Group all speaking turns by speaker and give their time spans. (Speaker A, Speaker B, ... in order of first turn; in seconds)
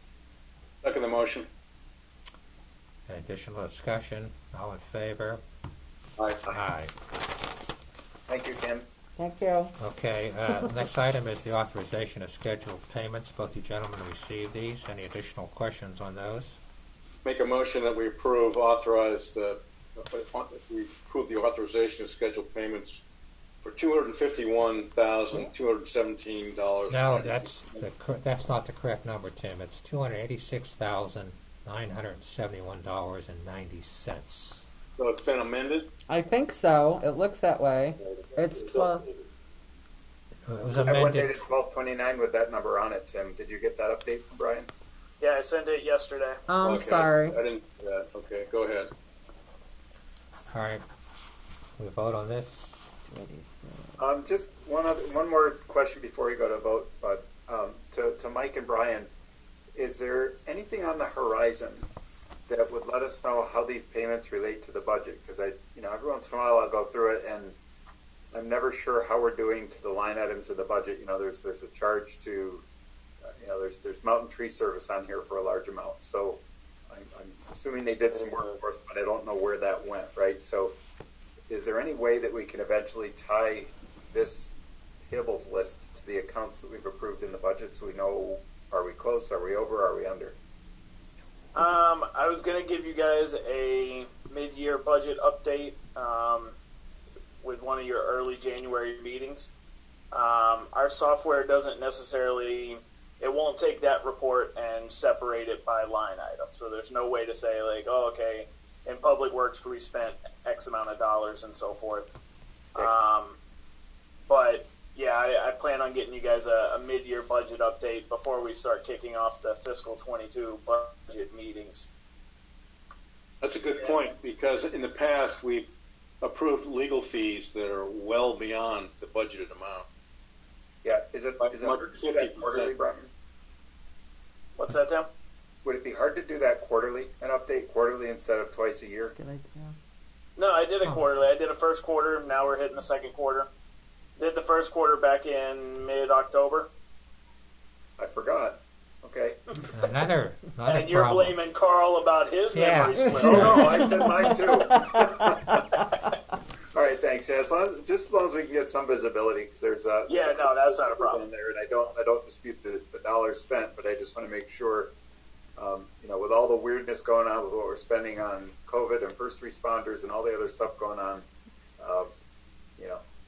Speaker A: 0.8-1.5, 6.2-6.4, 17.2-23.0, 23.6-27.9, 35.0-35.9, 38.0-39.2, 46.6-48.9, 123.4-129.8, 131.4-132.7
Speaker B: 3.1-5.4, 6.5-6.9, 9.8-16.6, 26.9-34.6, 40.5-41.4, 50.5-50.8, 51.8-52.9, 140.8-141.1, 149.7-151.3, 152.5-153.6
Speaker C: 8.3-8.8, 40.8-44.7, 54.0-59.1, 59.8-61.9, 62.5-67.6, 68.3-72.6, 73.4-80.7, 81.5-84.5, 85.1-90.4, 130.8-133.1, 135.6-139.1, 148.0-149.6, 153.1-155.7, 156.7-164.9, 165.6-171.2, 171.8-172.1, 172.8-173.0
Speaker D: 9.2-9.7, 36.1-39.0, 46.5-47.4, 53.1-54.0, 139.1-139.7
Speaker E: 45.2-46.4, 91.5-96.5, 97.4-99.5, 100.1-112.1, 112.8-113.4, 114.3-121.9, 134.6-135.1, 140.4-143.5, 144.2-146.7, 150.7-153.9, 160.1-161.2